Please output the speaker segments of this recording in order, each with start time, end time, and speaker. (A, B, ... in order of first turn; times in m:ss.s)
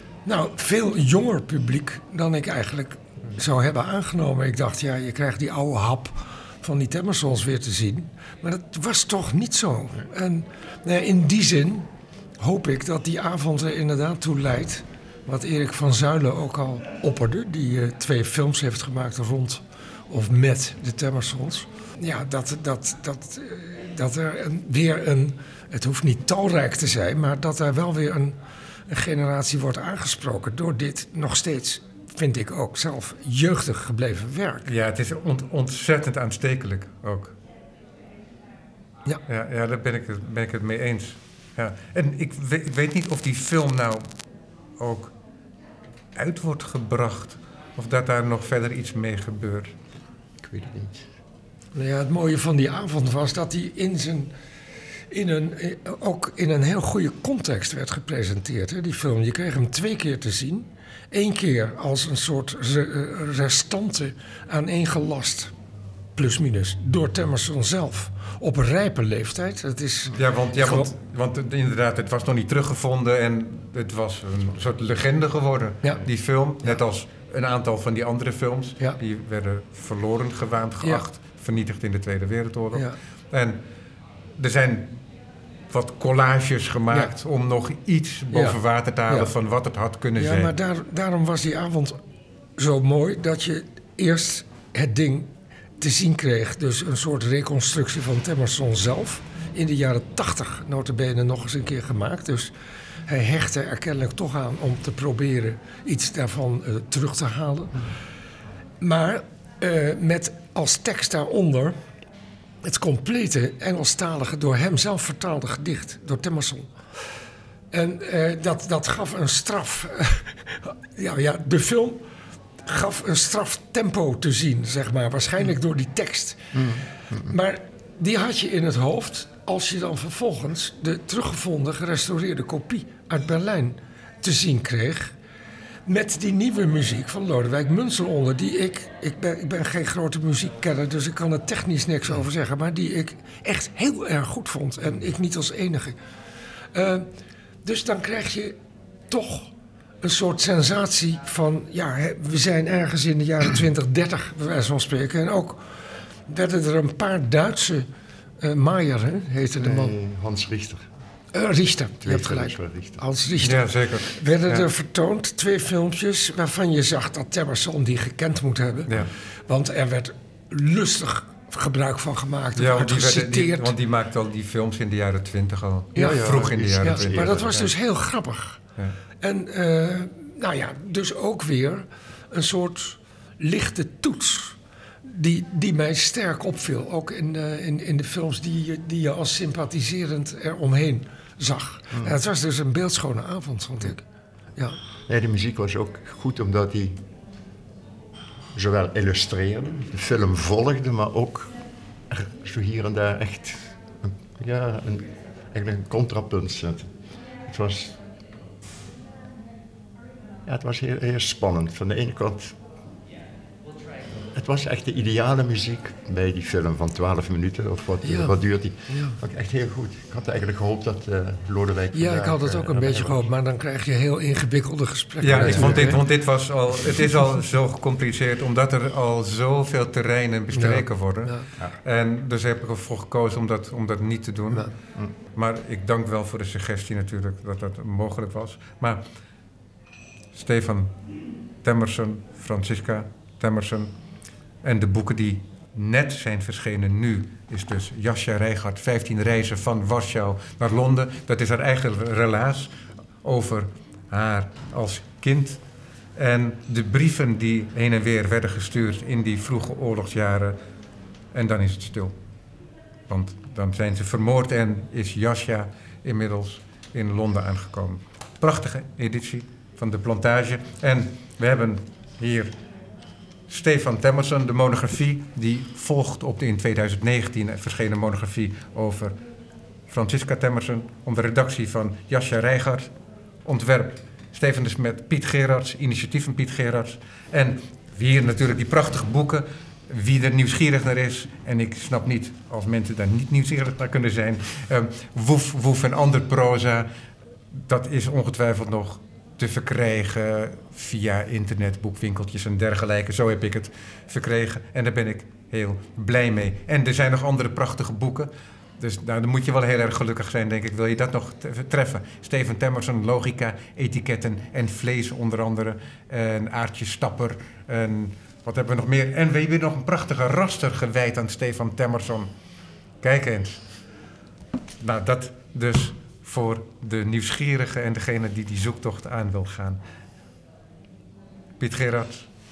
0:00.2-0:11.9 A
0:12.4-0:28.4 A
0:28.9-0:34.7 A
0:34.6-0:37.3 B
0:39.2-0:44.1 B
0:44.8-0:45.1 B
0:46.1-0:49.7 B
0:50.4-0:51.1 C
0:51.7-0:54.3 A
0:55.1-1:05.5 A
1:06.2-1:10.9 A
1:10.1-1:23.6 B
1:24.4-1:25.0 B
1:25.7-1:30.5 B
1:28.3-1:29.3 A
1:30.2-1:32.0 A
1:32.6-1:42.5 A
1:43.1-1:47.9 A
1:48.8-1:51.8 A
1:52.6-1:56.7 A
1:57.7-2:02.0 A
2:02.6-2:15.1 A
2:06.5-2:07.3 C
2:15.8-2:26.0 A
2:26.7-2:27.1 A
2:27.6-2:28.5 A
2:29.1-2:37.9 A
2:38.4-2:39.9 A
2:39.6-2:40.8 C
2:41.3-2:53.7 A
2:42.0-2:43.0 C
2:43.4-2:44.7 B
2:52.6-2:57.7 B
2:55.9-2:57.7 C
2:55.9-2:58.6 A
2:59.2-3:14.0 A
3:15.1-3:17.0 C
3:18.5-3:21.5 C
3:22.1-3:26.9 C
3:27.4-3:28.0 C
3:30.4-3:32.6 C
3:34.2-3:43.3 C
3:38.0-3:38.3 A
3:38.9-3:39.2 A
3:41.9-3:46.0 A
3:45.2-3:54.7 B
3:45.3-3:45.9 C
3:50.5-3:51.4 A
3:55.3-3:59.0 B
4:00.3-4:01.0 B
4:01.6-4:03.9 B
4:04.6-4:15.6 B
4:16.2-4:20.6 B
4:21.3-4:22.1 B
4:23.1-4:32.5 B
4:33.5-4:39.1 B
4:39.9-4:42.9 B
4:43.4-4:56.9 B
4:57.6-5:22.3 B
5:23.0-5:23.6 B
5:24.8-5:29.8 B
5:31.6-5:32.3 B